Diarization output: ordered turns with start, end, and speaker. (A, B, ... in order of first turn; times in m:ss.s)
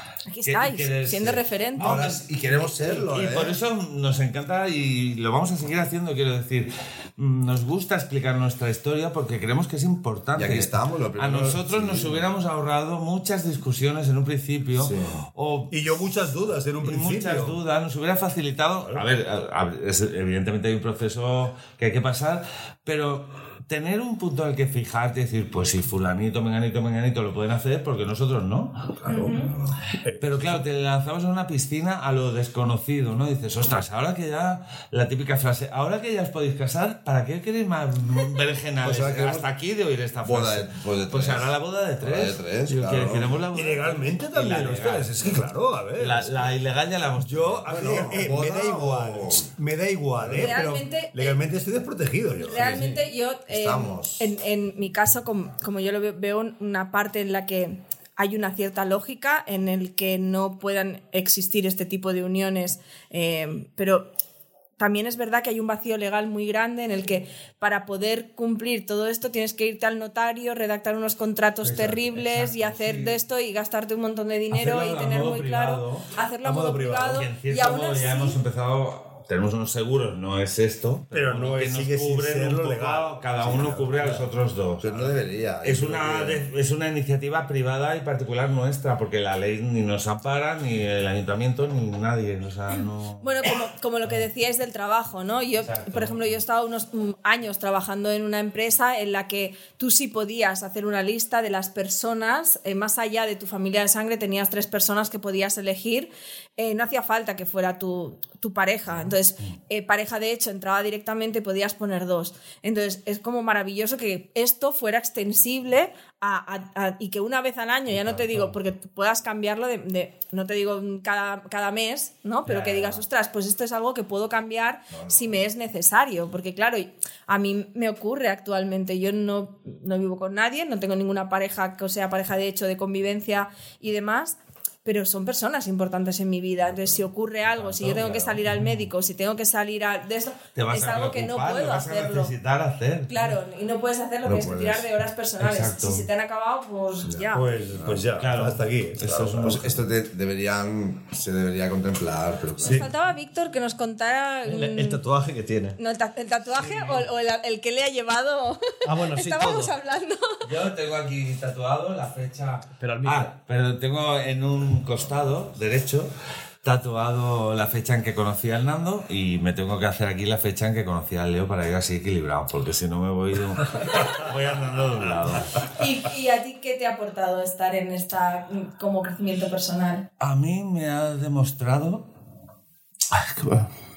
0:00.3-0:02.0 A
0:00.4-0:16.1 B
0:01.8-0:03.6 C
0:10.4-0:12.2 C
0:14.8-0:15.2 C
0:15.7-0:17.6 D
0:16.8-0:28.9 B
0:29.0-0:30.6 D
0:29.1-0:29.5 A
0:30.2-0:45.4 B
0:38.8-0:39.5 C
0:40.2-0:43.4 C
0:43.5-0:46.5 D
0:46.0-0:48.2 B
0:47.2-0:52.9 D
0:47.7-0:49.5 C
0:50.2-0:50.6 C
0:50.4-0:51.4 A
0:52.4-1:04.1 A
0:52.5-0:52.9 C
0:53.5-0:54.3 C
1:04.8-1:18.4 A
1:11.6-1:13.2 B
1:14.5-1:16.1 B
1:16.4-1:17.3 D
1:17.1-1:33.2 B
1:21.1-1:24.3 D
1:24.8-1:26.5 C
1:33.2-2:22.3 A
1:35.6-1:36.3 B
2:04.9-2:05.4 C
2:17.4-2:18.9 B
2:20.5-2:23.2 B
2:23.1-2:27.5 A
2:24.2-2:24.9 C
2:25.4-2:26.1 B
2:27.0-2:28.0 C
2:27.3-2:29.7 D
2:28.2-2:29.7 B
2:29.4-2:32.9 C
2:32.6-2:35.0 A
2:34.4-2:35.8 E
2:35.8-2:40.4 A
2:36.6-2:37.0 B
2:38.8-2:39.7 E
2:40.4-2:46.1 B
2:42.8-2:43.3 E
2:46.6-2:55.6 B
2:55.7-3:00.1 A
3:00.2-3:02.1 B
3:03.1-3:03.7 B